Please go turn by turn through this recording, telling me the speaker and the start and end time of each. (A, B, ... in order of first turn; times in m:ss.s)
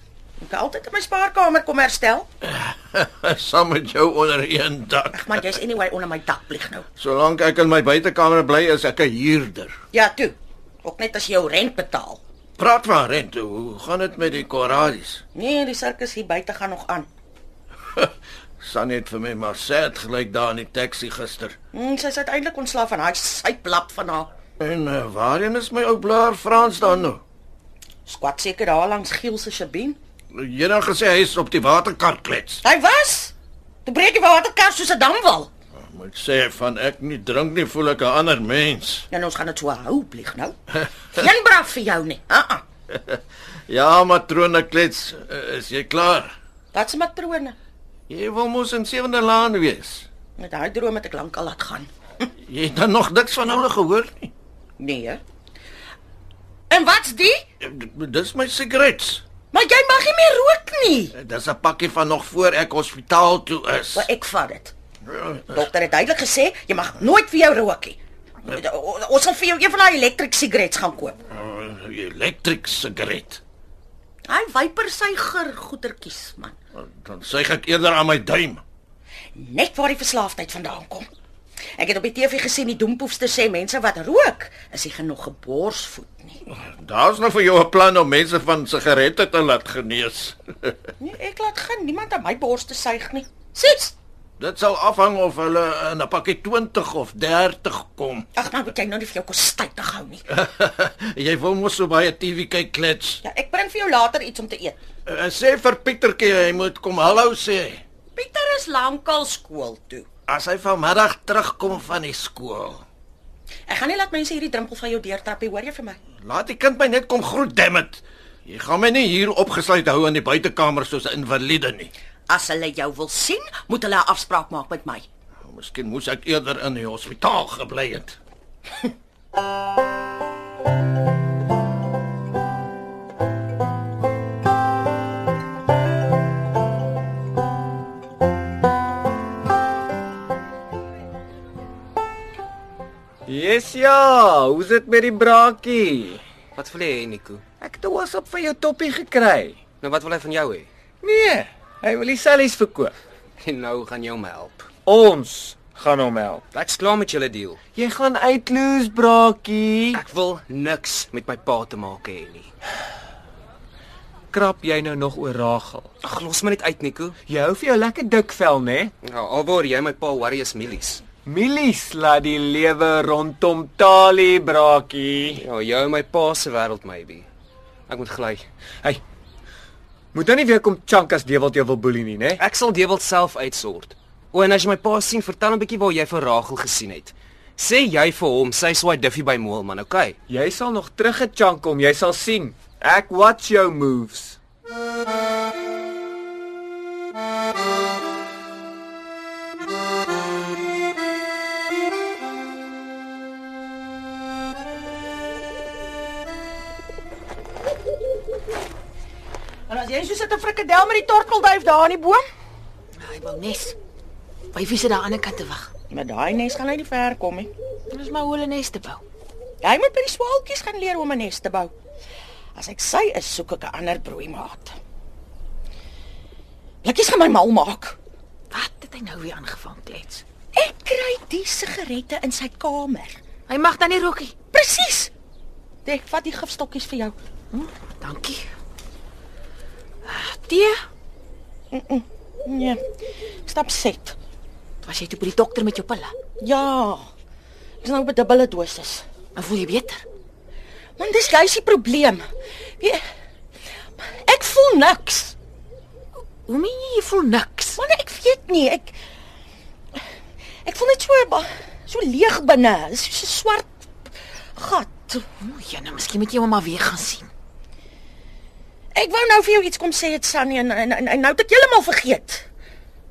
0:00.4-0:02.3 A
0:02.4-0:05.3 B
0:05.1-0:06.8 A
0:07.0-0:09.7 B
0:09.9-0:12.2 A
0:12.6-0:15.2 B
0:15.3-0:17.1 A
0:17.9-0:21.5 B
0:21.7-0:24.3 A
0:24.6-0:27.2 B
0:28.0-0:30.0 A
0:30.3-0:32.6 B
0:32.6-0:33.3 A
0:33.8-0:35.5 A
0:35.9-0:39.1 B
0:39.1-0:40.6 A
0:41.1-0:42.6 A
0:42.9-0:43.2 B
0:43.7-0:46.3 B
0:46.7-0:47.6 A
0:48.1-0:50.1 B
0:50.4-0:52.3 A
0:52.4-0:54.3 B
0:54.8-0:55.2 A
0:56.7-0:57.4 A
0:57.6-0:59.2 B
0:59.5-1:01.1 A
1:01.1-1:04.1 B
1:03.9-1:04.7 A
1:05.1-1:05.4 B
1:05.5-1:11.2 A
1:11.3-1:13.4 B
1:14.3-1:16.6 A
1:16.8-1:18.6 B
1:19.3-1:21.1 A
1:21.8-1:26.4 A
1:26.5-1:30.7 B
1:31.0-1:33.9 A
1:34.4-1:38.2 B
1:38.3-1:40.2 A
1:40.3-1:43.2 B
1:43.2-1:44.8 A
1:45.0-1:47.8 B
1:48.1-1:50.1 A
1:50.3-1:52.8 B
1:53.7-1:56.0 A
1:56.2-2:01.9 B
2:02.3-2:05.0 A
2:05.4-2:08.2 B
2:23.3-2:26.2 C
2:26.5-2:27.4 D
2:27.6-2:29.6 C
2:29.8-2:30.7 D
2:31.0-2:32.9 C
2:33.4-2:34.7 D
2:34.8-2:36.4 C
2:36.5-2:37.6 D
2:37.8-2:40.0 C
2:39.9-2:42.5 D
2:44.3-2:45.9 C
2:46.0-2:47.2 D
2:47.3-2:48.9 C
2:49.0-2:51.1 D
2:51.2-2:55.4 C
2:55.4-2:57.2 D
2:57.9-2:58.4 D
3:00.1-3:02.4 C
3:02.4-3:10.2 D
3:10.3-3:14.4 C
3:29.7-3:32.2 A
3:33.0-3:33.8 E
3:34.5-3:35.7 E
3:35.9-3:37.5 A
3:37.9-3:39.0 E
3:39.6-3:41.7 A
3:42.5-3:44.8 A
3:46.8-3:48.0 A
3:48.5-3:50.2 E
3:50.5-3:53.2 A
3:53.5-3:54.3 E
3:54.5-3:55.1 A
3:55.8-3:57.2 A
3:57.5-3:58.4 E
4:00.0-4:00.8 E
4:01.7-4:02.8 A
4:03.4-4:04.2 A
4:04.8-4:06.1 E
4:06.4-4:07.1 A
4:07.8-4:09.0 A
4:09.3-4:10.0 E
4:11.0-4:12.3 A
4:14.0-4:15.3 A
4:16.4-4:17.8 E
4:17.8-4:19.0 A
4:20.6-4:23.9 A
4:24.5-4:25.2 A
4:25.4-4:27.3 E
4:28.9-4:32.5 A